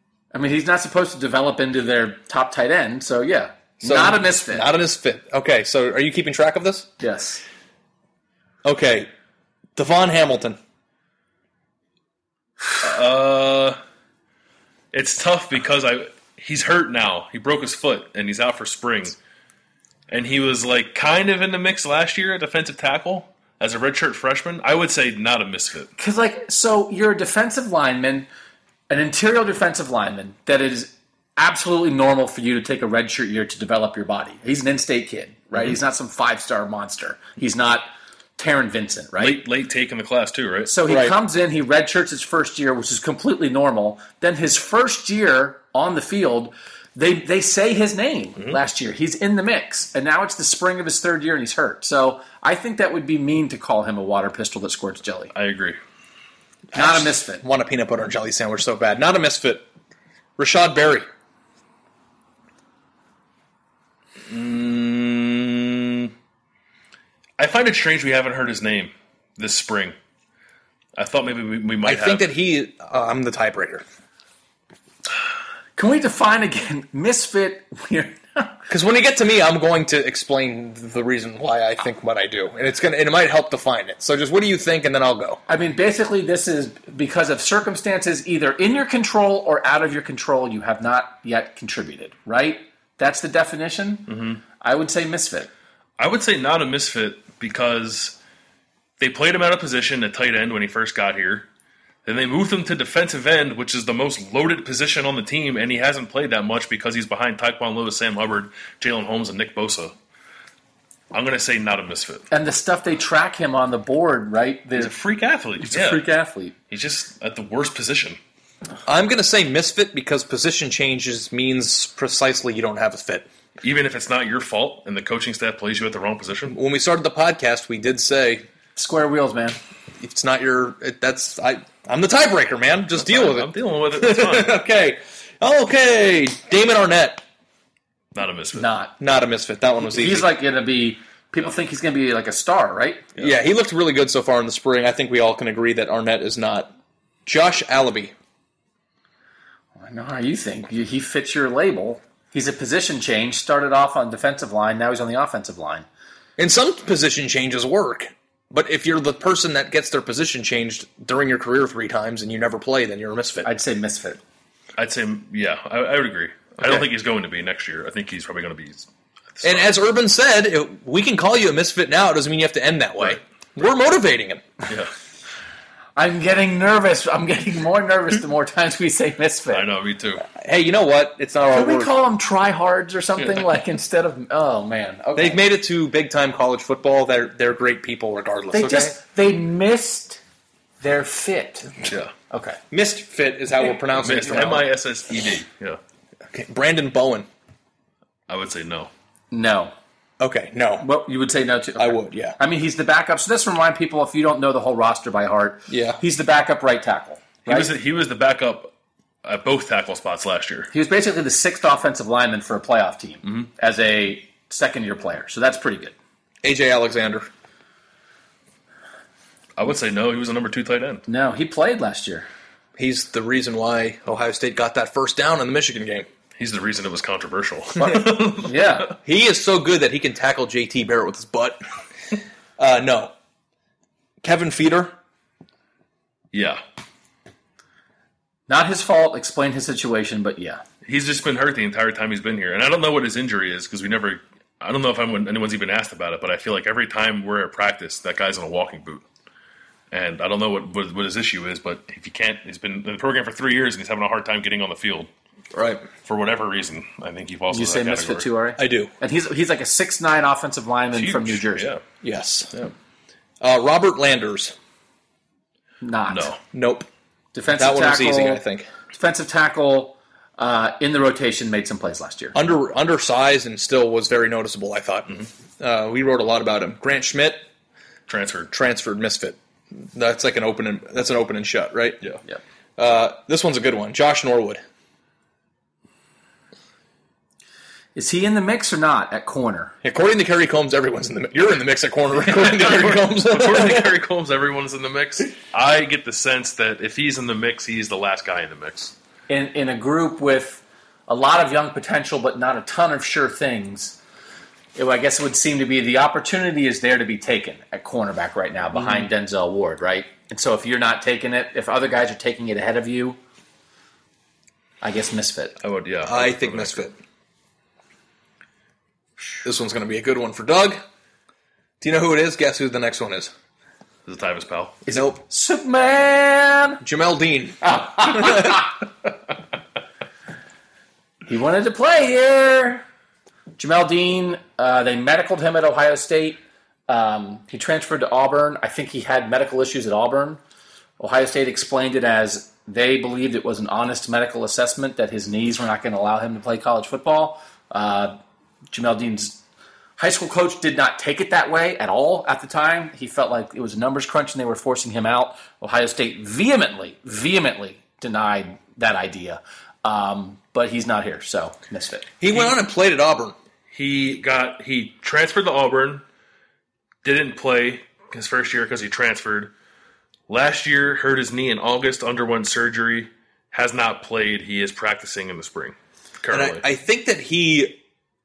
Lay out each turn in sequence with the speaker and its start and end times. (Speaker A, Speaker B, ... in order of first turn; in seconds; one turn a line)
Speaker A: 0.3-4.7
Speaker B: 3.8-6.9
Speaker A: 7.0-7.4
Speaker B: 8.6-9.1
Speaker B: 9.8-10.6
Speaker C: 12.8-13.8
Speaker C: 14.9-19.1
Speaker C: 20.1-25.9
Speaker A: 26.0-28.3
Speaker A: 28.9-39.4
Speaker C: 39.2-40.7
Speaker A: 40.7-55.3
Speaker B: 40.9-41.1
Speaker C: 55.3-55.8
Speaker B: 56.7-59.6
Speaker A: 56.7-57.4
Speaker B: 60.4-61.1
Speaker C: 64.3-66.1
Speaker C: 67.4-70.0
Speaker C: 71.0-72.2
Speaker B: 71.8-73.8
Speaker A: 75.8-78.6
Speaker B: 78.7-85.4
Speaker A: 85.5-95.5
Speaker C: 94.1-94.4
Speaker C: 96.0-98.2
Speaker C: 99.0-101.5
Speaker C: 102.0-109.9
Speaker C: 111.1-112.2
Speaker A: 112.3-114.9
Speaker C: 114.8-116.0
Speaker A: 115.6-116.5
Speaker C: 116.7-118.2
Speaker B: 118.8-123.3
Speaker C: 123.6-126.5
Speaker B: 126.5-128.4
Speaker A: 128.8-129.6
Speaker B: 130.0-137.2
Speaker C: 133.0-134.6
Speaker C: 138.1-138.7
Speaker A: 138.5-138.9
Speaker B: 139.0-140.3
Speaker A: 139.9-143.1
Speaker B: 143.2-146.7
Speaker B: 147.2-148.1
Speaker A: 149.8-155.8
Speaker B: 156.4-163.5
Speaker A: 163.4-164.2
Speaker C: 164.8-169.7
Speaker B: 169.4-174.4
Speaker A: 175.9-179.7
Speaker C: 179.5-180.3
Speaker B: 180.3-181.9
Speaker A: 181.5-185.4
Speaker B: 185.1-188.9
Speaker A: 188.5-190.2
Speaker A: 190.8-191.7
Speaker A: 192.3-192.6
Speaker B: 192.7-194.6
Speaker C: 194.0-195.8
Speaker A: 194.2-194.6
Speaker B: 196.3-197.3
Speaker C: 198.3-198.9
Speaker A: 199.3-199.7
Speaker B: 200.2-200.8
Speaker A: 200.8-207.7
Speaker B: 201.8-202.4
Speaker B: 205.7-206.0
Speaker C: 207.4-208.7
Speaker C: 209.2-210.7
Speaker A: 210.7-215.9
Speaker B: 216.4-217.3
Speaker C: 219.6-221.0
Speaker A: 221.1-222.3
Speaker B: 222.8-226.1
Speaker C: 226.4-228.8
Speaker A: 227.8-228.9
Speaker B: 229.0-231.6
Speaker B: 232.6-233.1
Speaker B: 234.2-234.9
Speaker C: 236.3-236.6
Speaker A: 238.5-240.6
Speaker C: 240.8-249.0
Speaker C: 249.9-255.1
Speaker B: 255.5-255.8
Speaker C: 256.0-258.3
Speaker A: 257.5-261.7
Speaker B: 258.6-258.9
Speaker C: 260.9-261.8
Speaker B: 262.0-262.5
Speaker B: 263.4-264.5
Speaker A: 265.8-266.3
Speaker C: 266.1-266.4
Speaker B: 266.5-266.9
Speaker A: 267.3-272.3
Speaker B: 267.6-268.7
Speaker B: 272.3-277.4
Speaker C: 278.1-278.5
Speaker B: 278.5-282.0
Speaker B: 282.8-284.6
Speaker A: 287.9-289.7
Speaker B: 289.8-293.9
Speaker C: 292.2-298.9
Speaker A: 299.3-304.0
Speaker A: 304.8-313.2
Speaker A: 314.8-315.5
Speaker C: 315.6-316.9
Speaker B: 316.0-317.0
Speaker B: 319.4-320.8
Speaker B: 321.8-323.3
Speaker C: 324.1-324.8
Speaker A: 324.9-326.8
Speaker B: 324.9-325.2
Speaker B: 326.8-328.5
Speaker A: 327.6-328.7
Speaker A: 331.3-332.8
Speaker A: 333.6-340.4
Speaker A: 341.0-348.2
Speaker A: 348.7-349.4
Speaker A: 350.0-362.5
Speaker B: 362.2-363.4
Speaker C: 363.7-366.0
Speaker C: 367.0-369.5
Speaker C: 370.3-376.6
Speaker B: 376.3-377.8